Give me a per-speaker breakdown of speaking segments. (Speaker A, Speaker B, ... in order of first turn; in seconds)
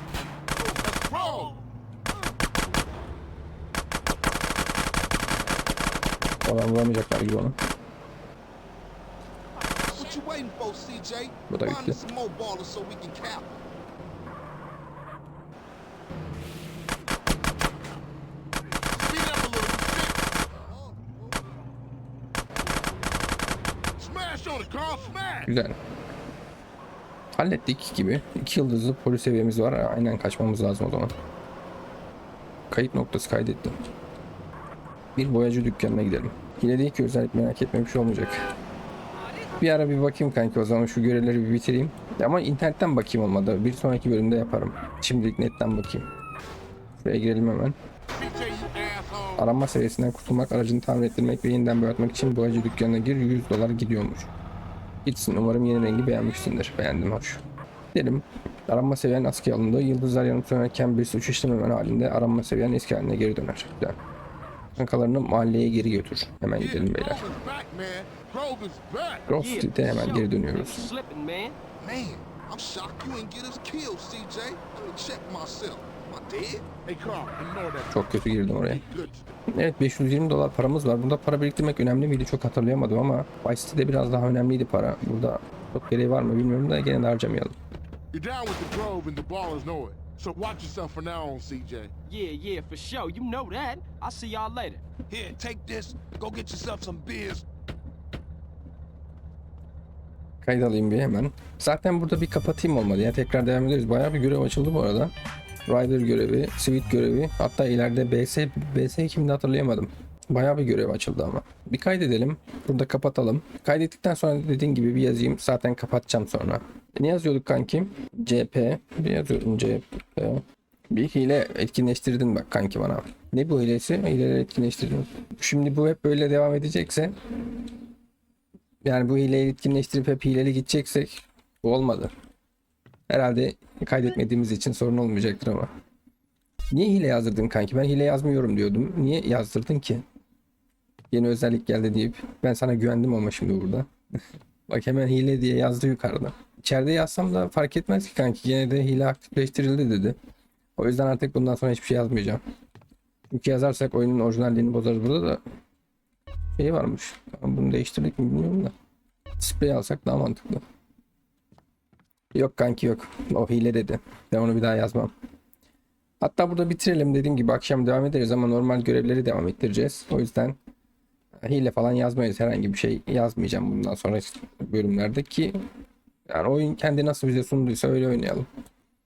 Speaker A: 0.6-1.6, 18.9-20.2, 24.0-25.5, 48.1-49.5, 66.5-69.3, 76.8-79.3, 88.1-91.9
Speaker B: 6.4-7.6, 11.5-12.0, 25.4-25.8, 27.4-31.1, 32.7-33.7, 35.1-38.4, 39.6-46.1, 47.0-47.8, 49.4-54.3, 55.0-57.4, 57.9-64.0, 64.8-67.2, 69.3-70.9, 77.9-78.8, 79.5-87.5, 100.4-105.1, 105.7-127.1, 128.8-132.1, 133.1-135.7, 136.7-140.0, 141.1-143.9, 144.7-150.2, 150.8-152.4, 153.3-155.4, 156.6-158.7, 159.4-160.6, 162.3-165.1, 166.2-170.6, 171.4-175.6, 176.3-178.5
Speaker C: 9.8-13.6, 71.8-76.7
Speaker D: 69.3-71.6, 92.1-94.8
Speaker E: 95.1-97.4